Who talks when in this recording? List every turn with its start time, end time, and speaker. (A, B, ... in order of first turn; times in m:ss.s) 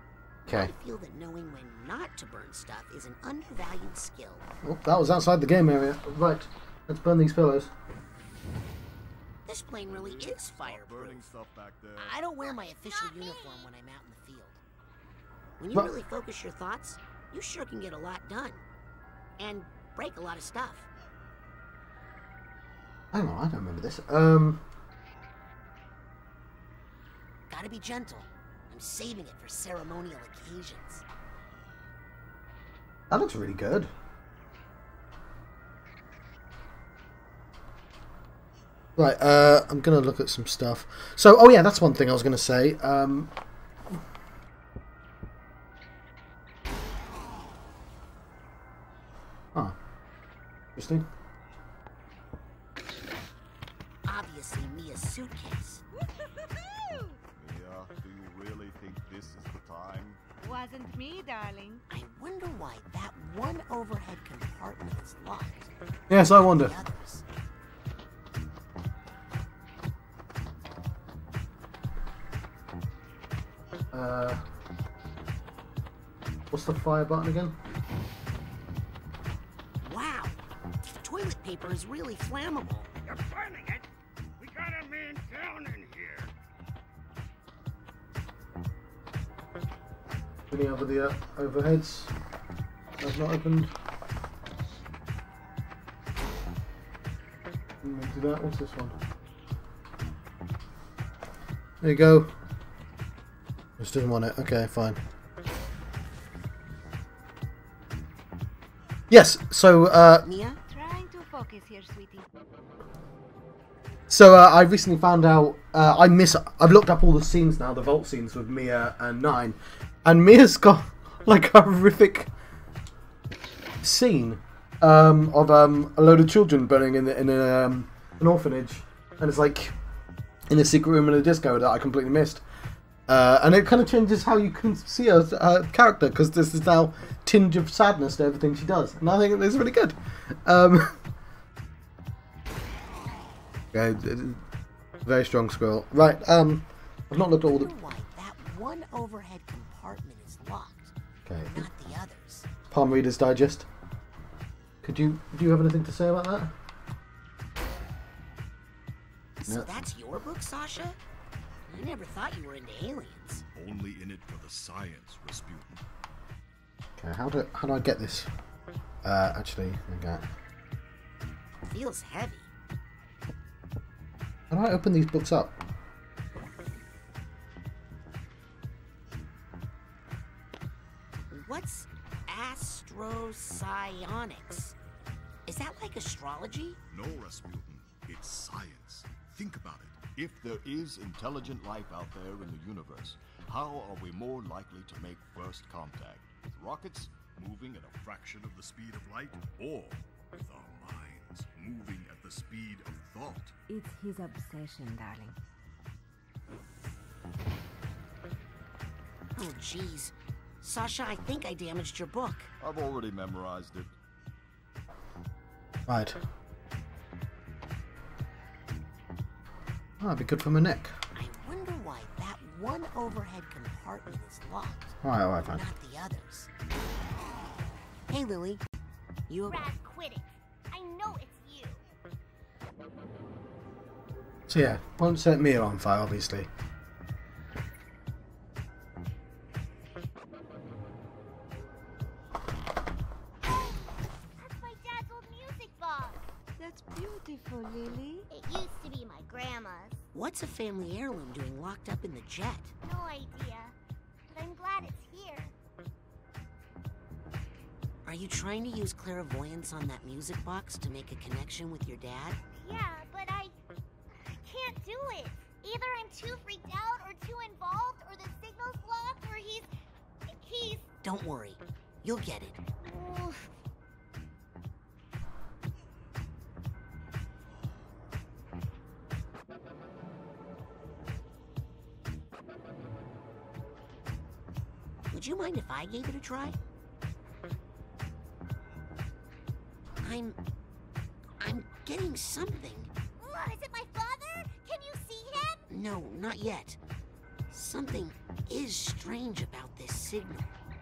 0:00.5-0:00.7 A
0:00.5-0:04.5 B
0:04.6-0:07.7 A
0:09.4-0:11.3 B
0:10.0-0:12.2 C
0:12.0-0:14.6 B
0:12.4-0:13.7 D
0:15.6-0:18.6 B
0:19.4-0:20.9 B
0:23.1-0:24.6 A
0:27.5-0:31.0 B
0:33.1-0:33.9 A
0:39.0-0:43.3 A
0:50.8-0:51.1 A
0:54.0-0:55.8 B
0:56.6-0:57.2 E
0:57.4-1:00.2 C
1:00.4-1:01.8 E
1:01.9-1:07.2 B
1:06.1-1:06.7 A
1:13.9-1:14.4 A
1:16.5-1:17.6 A
1:19.8-1:20.4 B
1:21.0-1:22.9 B
1:23.0-1:23.9 F
1:24.4-1:26.3 F
1:30.5-1:32.1 A
1:33.0-1:33.7 A
1:37.8-1:39.0 A
1:41.8-1:42.3 A
1:43.8-1:45.0 A
1:49.1-1:50.2 A
1:50.2-1:50.6 B
1:50.7-1:52.2 E
1:54.1-2:02.3 A
2:03.8-2:09.7 A
2:10.5-2:12.4 A
2:13.1-2:21.0 A
2:23.7-2:24.4 A
2:25.0-2:27.7 A
2:27.5-2:30.9 B
2:31.2-2:31.7 A
2:31.4-2:32.5 B
2:32.7-2:33.7 A
2:34.8-2:36.5 A
2:39.4-2:41.0 B
2:39.5-2:39.8 A
2:41.7-2:43.4 B
2:43.5-2:45.8 C
2:47.0-2:48.3 A
2:49.0-2:50.2 A
2:51.6-2:52.5 B
2:54.5-2:55.6 A
3:01.3-3:04.7 B
3:05.4-3:06.8 B
3:06.9-3:23.5 C
3:23.7-3:25.4 E
3:29.3-3:32.5 B
3:32.6-3:33.9 C
3:35.9-3:36.2 A
3:40.0-3:40.9 A
3:41.1-3:46.5 B
3:45.0-3:45.6 A
3:48.1-3:48.6 B
3:49.3-3:49.6 B
3:49.4-3:51.8 D
3:54.5-3:56.5 A
4:03.4-4:06.2 D
4:06.6-4:08.3 E
4:08.3-4:10.0 D
4:10.1-4:12.7 B
4:12.8-4:13.7 D
4:14.3-4:15.5 D
4:18.0-4:22.4 B
4:22.6-4:23.6 D
4:24.2-4:29.7 D
4:30.2-4:30.9 D
4:31.0-4:32.6 B
4:32.8-4:33.5 D
4:45.1-4:46.6 B
4:50.0-4:50.4 B
4:51.4-4:52.9 B
4:53.2-4:55.6 D
4:55.7-4:56.8 B
4:57.5-5:00.6 B